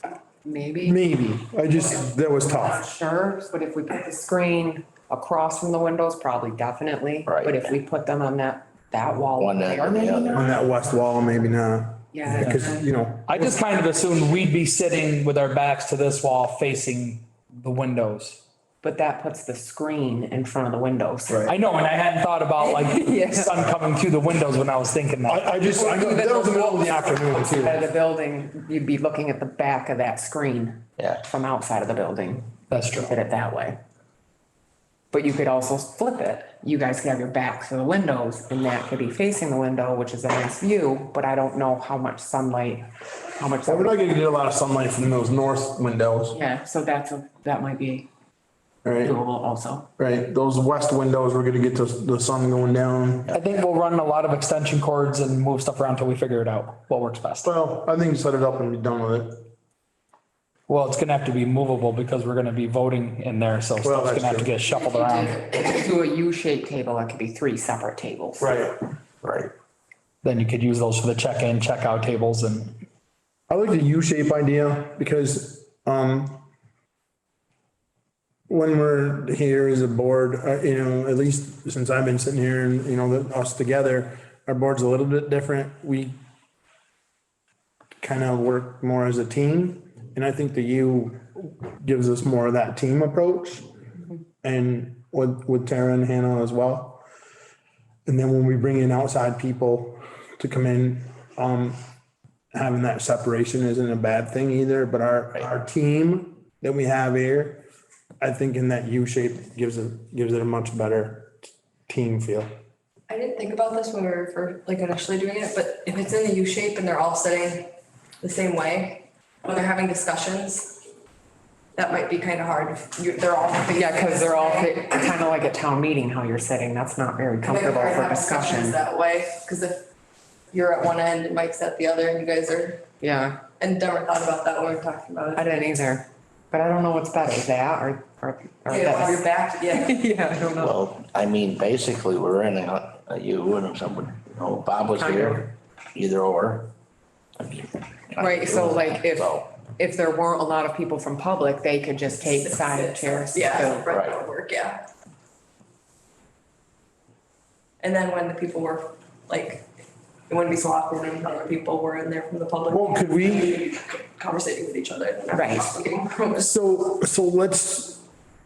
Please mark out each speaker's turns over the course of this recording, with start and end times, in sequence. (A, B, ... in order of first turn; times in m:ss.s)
0:00.4-0:01.0 A
0:00.8-0:02.8 B
0:02.5-0:10.4 A
0:07.2-0:07.8 C
0:09.4-0:10.6 C
0:10.3-0:13.6 B
0:12.1-0:12.8 A
0:12.3-0:12.6 D
0:13.2-0:18.4 D
0:18.8-0:21.5 A
0:21.3-0:21.5 B
0:21.4-0:25.5 D
0:22.6-0:23.4 A
0:25.3-0:27.8 B
0:25.6-0:33.8 A
0:31.0-0:31.2 C
0:32.7-0:33.2 D
0:35.1-0:44.0 A
0:43.6-0:46.4 B
0:46.3-0:48.1 A
0:48.8-0:49.2 B
0:49.0-0:49.9 A
0:50.0-0:53.4 B
0:53.3-0:57.5 D
0:57.4-0:59.5 B
1:00.7-1:05.4 D
1:03.8-1:04.6 B
1:04.8-1:05.9 E
1:04.9-1:08.6 A
1:08.4-1:08.8 B
1:10.2-1:12.7 D
1:13.5-1:16.4 B
1:18.5-1:26.2 B
1:28.0-1:33.6 B
1:34.4-1:37.0 B
1:38.0-1:41.8 B
1:42.5-1:47.6 B
1:48.2-1:52.5 B
1:53.1-2:00.8 E
2:01.8-2:05.2 E
2:03.7-2:08.8 A
2:07.4-2:09.9 E
2:10.5-2:12.8 E
2:13.0-2:13.4 A
2:13.5-2:15.8 E
2:15.3-2:19.2 A
2:18.6-2:20.7 E
2:19.7-2:20.6 A
2:20.6-2:26.7 C
2:25.0-2:25.4 A
2:27.4-2:29.5 C
2:28.2-2:33.8 A
2:32.2-2:34.8 E
2:33.9-2:34.2 C
2:37.8-2:39.6 E
2:40.3-2:46.5 E
2:42.7-2:43.7 B
2:45.3-2:45.7 A
2:46.4-2:48.0 B